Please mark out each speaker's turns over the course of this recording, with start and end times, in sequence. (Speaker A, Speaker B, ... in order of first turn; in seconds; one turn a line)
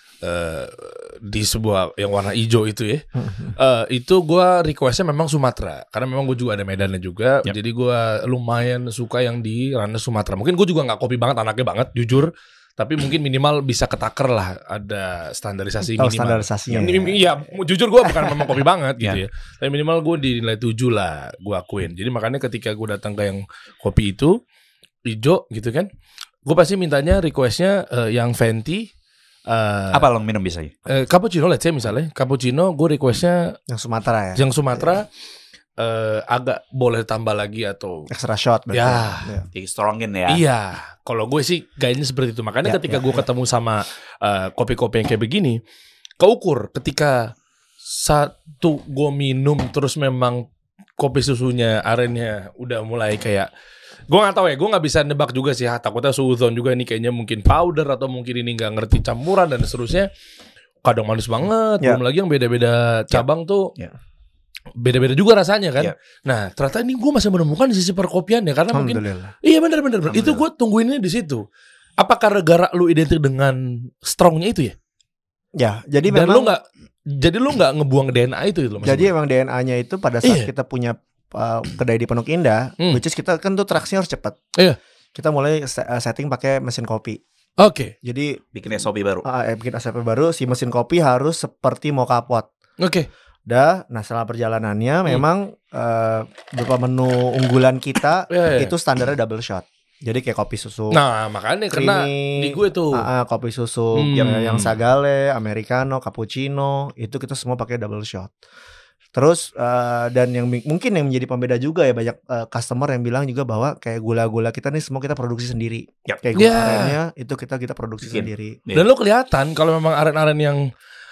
Speaker A: 0.2-24.4
Speaker B: 3.2-3.5
Speaker B: 15.8-17.5
Speaker B: 18.1-18.5
Speaker A: 25.1-25.9
Speaker A: 26.4-28.9
Speaker A: 29.5-30.1
Speaker C: 29.9-30.7
Speaker A: 30.9-33.5
Speaker B: 33.7-35.0
Speaker A: 34.4-35.1
Speaker A: 35.8-38.1
Speaker B: 38.1-39.5
Speaker A: 38.7-39.3
Speaker C: 39.5-40.4
Speaker A: 40.3-45.6
Speaker B: 42.6-43.2
Speaker A: 46.2-50.5
Speaker A: 51.0-53.5
Speaker A: 54.1-60.1
Speaker A: 60.8-63.7
Speaker A: 64.8-71.4
Speaker B: 68.7-69.3
Speaker A: 72.0-74.7
Speaker B: 75.6-76.5
Speaker A: 76.1-79.1
Speaker B: 78.8-84.4
Speaker A: 80.2-80.5
Speaker B: 85.1-87.2
Speaker A: 87.6-87.9
Speaker B: 88.0-88.4
Speaker C: 88.5-89.2
Speaker B: 89.2-92.5
Speaker A: 92.8-93.1
Speaker B: 93.5-101.0
Speaker A: 98.3-98.7
Speaker A: 100.9-103.1
Speaker B: 101.7-108.3
Speaker A: 103.9-104.7
Speaker B: 109.1-118.6
Speaker A: 116.3-117.0
Speaker C: 118.0-118.9
Speaker A: 118.7-120.7